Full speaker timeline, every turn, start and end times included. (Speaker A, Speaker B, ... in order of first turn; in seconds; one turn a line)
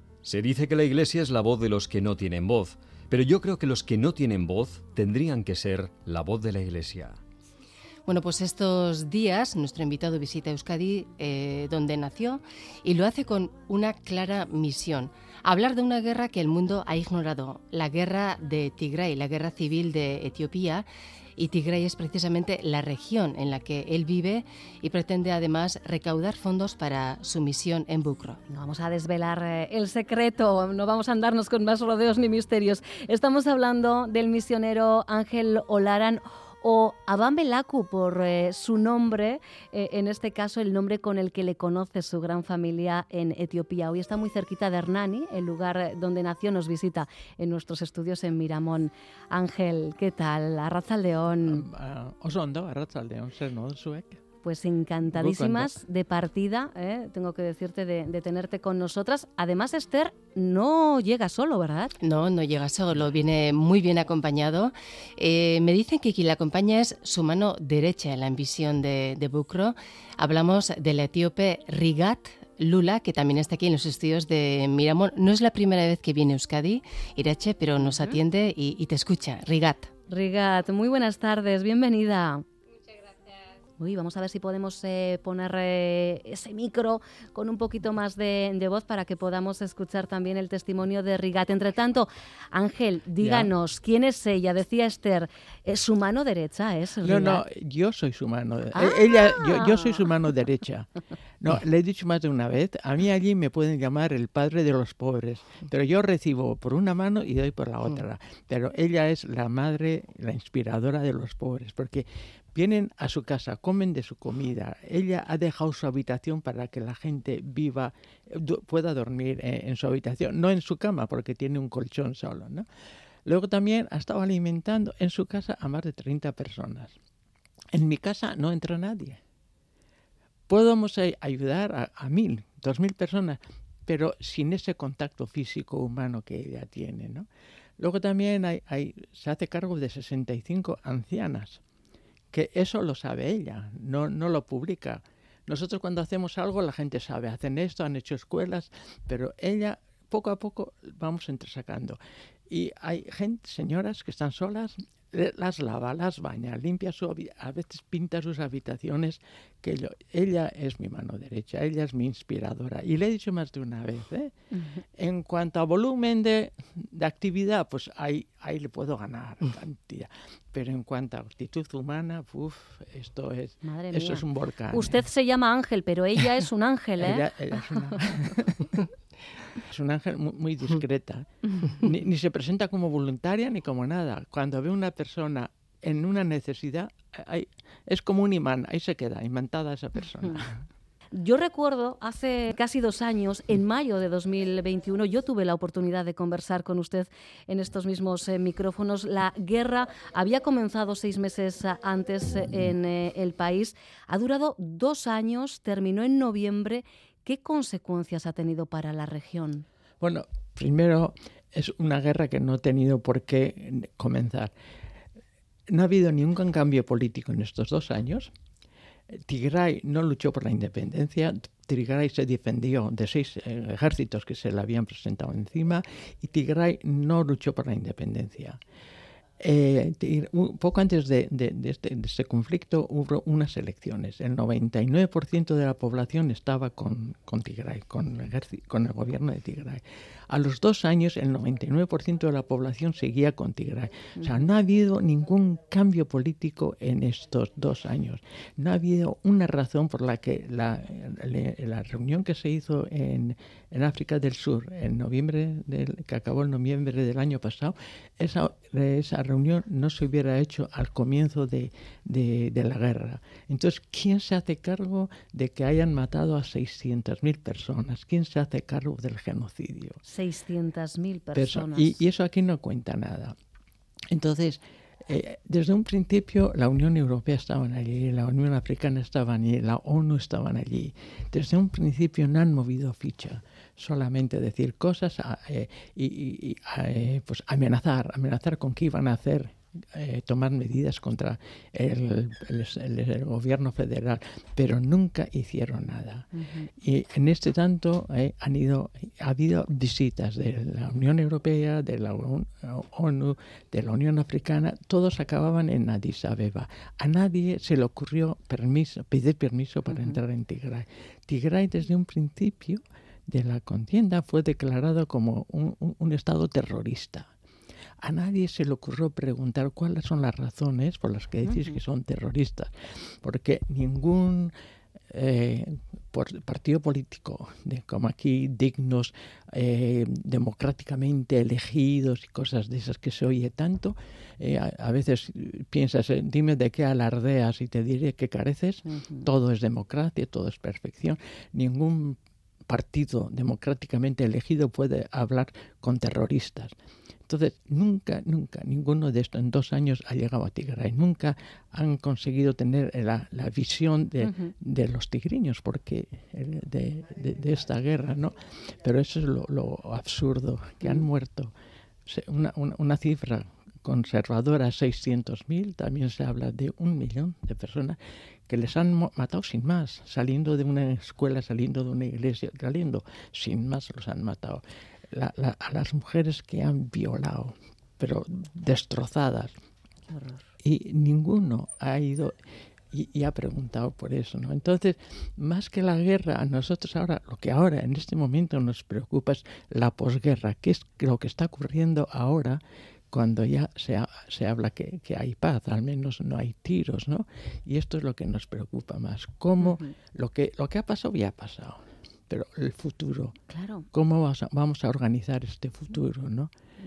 Speaker A: 0.2-7.2
Speaker B: 8.1-20.9
Speaker B: 21.4-28.4
Speaker C: 28.5-51.6
Speaker D: 51.4-54.2
Speaker C: 54.4-62.0
Speaker D: 55.1-55.7
Speaker B: 62.0-79.9
Speaker C: 80.1-82.4
Speaker C: 83.8-97.4
Speaker D: 93.2-93.5
Speaker D: 97.0-100.9
Speaker C: 98.7-99.9
Speaker D: 101.4-122.7
Speaker D: 123.3-127.0
Speaker D: 127.7-129.2
Speaker D: 130.5-137.3
Speaker D: 137.8-141.6
Speaker D: 142.3-152.0
Speaker D: 152.5-164.3
Speaker D: 165.0-175.0
Speaker C: 173.6-178.0
Speaker D: 177.0-178.8
Speaker D: 179.6-190.6
Speaker C: 191.1-209.7
Speaker D: 210.0-214.5
Speaker D: 215.7-218.3
Speaker D: 219.3-228.6
Speaker D: 229.4-270.0
Speaker C: 270.1-272.0
Speaker D: 271.3-273.4
Speaker D: 274.1-296.3
Speaker C: 296.3-296.7
Speaker D: 296.8-317.3
Speaker C: 309.9-310.2
Speaker D: 318.0-322.7
Speaker C: 321.4-321.8
Speaker D: 323.2-324.5
Speaker D: 325.1-342.2
Speaker C: 338.9-339.3
Speaker D: 342.7-346.7
Speaker D: 347.3-361.5
Speaker C: 354.2-354.5
Speaker D: 362.1-368.0
Speaker D: 368.5-379.5
Speaker C: 380.1-380.5
Speaker D: 380.6-382.3
Speaker D: 382.9-392.6
Speaker D: 393.1-403.4
Speaker C: 399.6-399.9
Speaker C: 403.5-403.9
Speaker D: 403.9-406.5